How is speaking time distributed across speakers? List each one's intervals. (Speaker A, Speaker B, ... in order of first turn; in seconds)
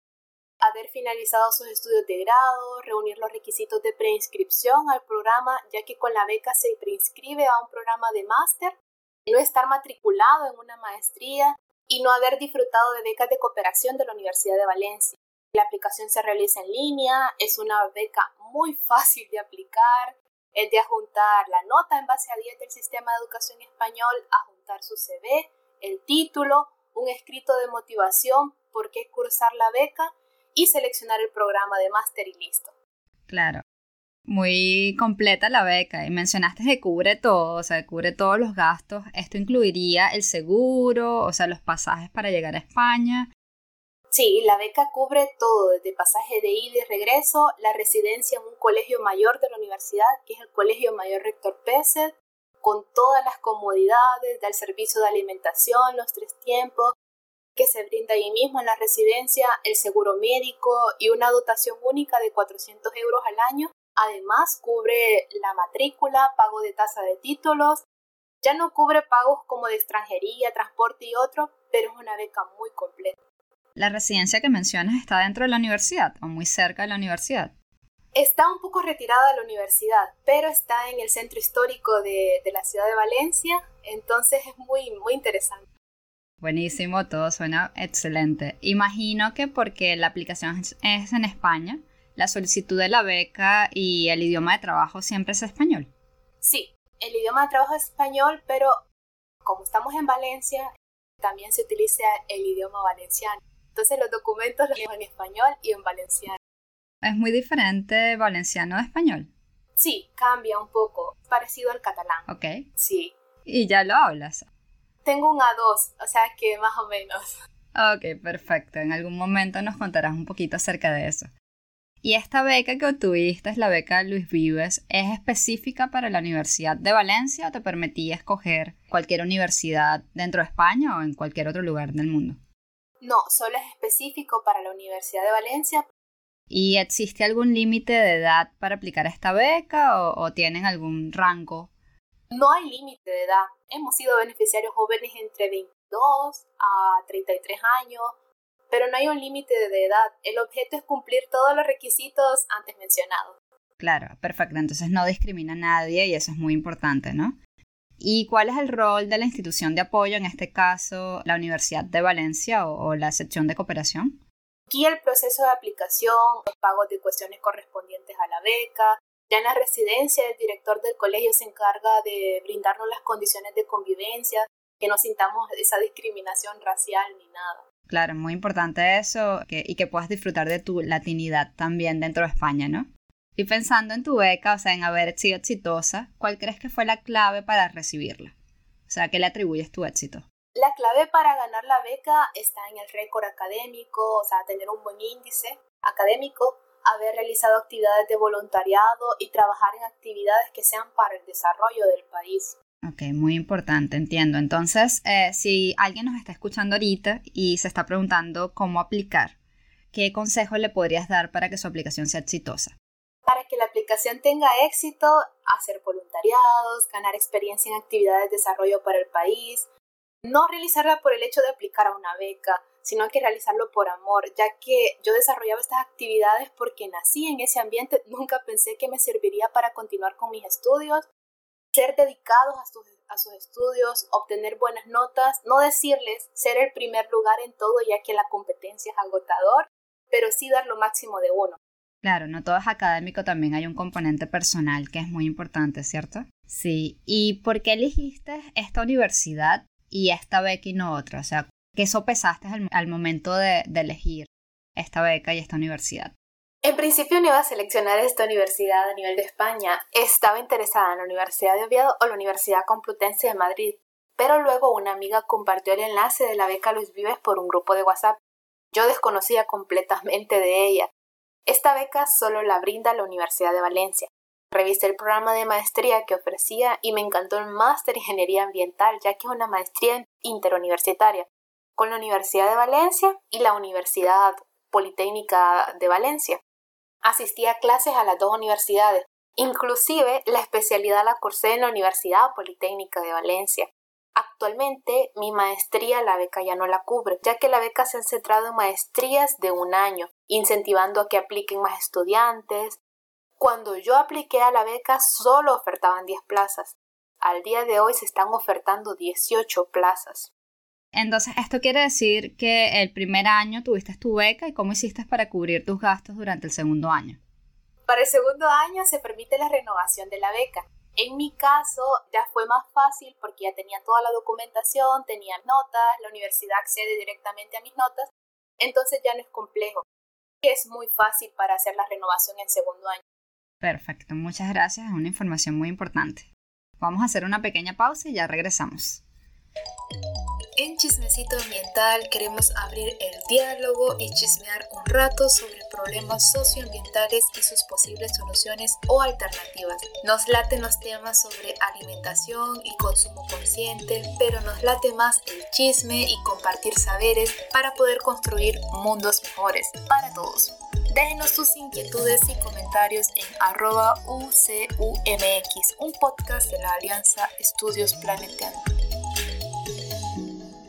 Speaker A: 0.6-32.7, 44.1-56.9, 57.6-67.8, 68.4-73.2, 78.1-85.7, 96.4-98.8, 99.4-106.4, 109.8-113.1, 115.0-117.4, 133.0-135.9, 142.3-148.2, 148.7-153.4, 164.7-177.6, 190.5-202.6, 213.2-219.7, 220.2-231.1, 231.7-241.6, 256.6-268.2, 268.7-270.9, 271.5-286.4, 287.0-302.8, 303.4-310.3, 317.9-329.9, 330.4-333.0, 340.6-368.6
Speaker B: 33.3-33.6, 34.3-43.3, 73.8-77.5, 86.4-95.9, 107.0-109.3, 112.3-112.7, 113.5-114.5, 117.8-121.3, 122.0-132.4, 136.5-141.7, 153.8-157.4, 158.0-164.2, 177.9-188.3, 188.9-190.2, 202.8-209.3, 209.9-212.7, 242.0-256.1, 310.9-317.2, 333.6-339.0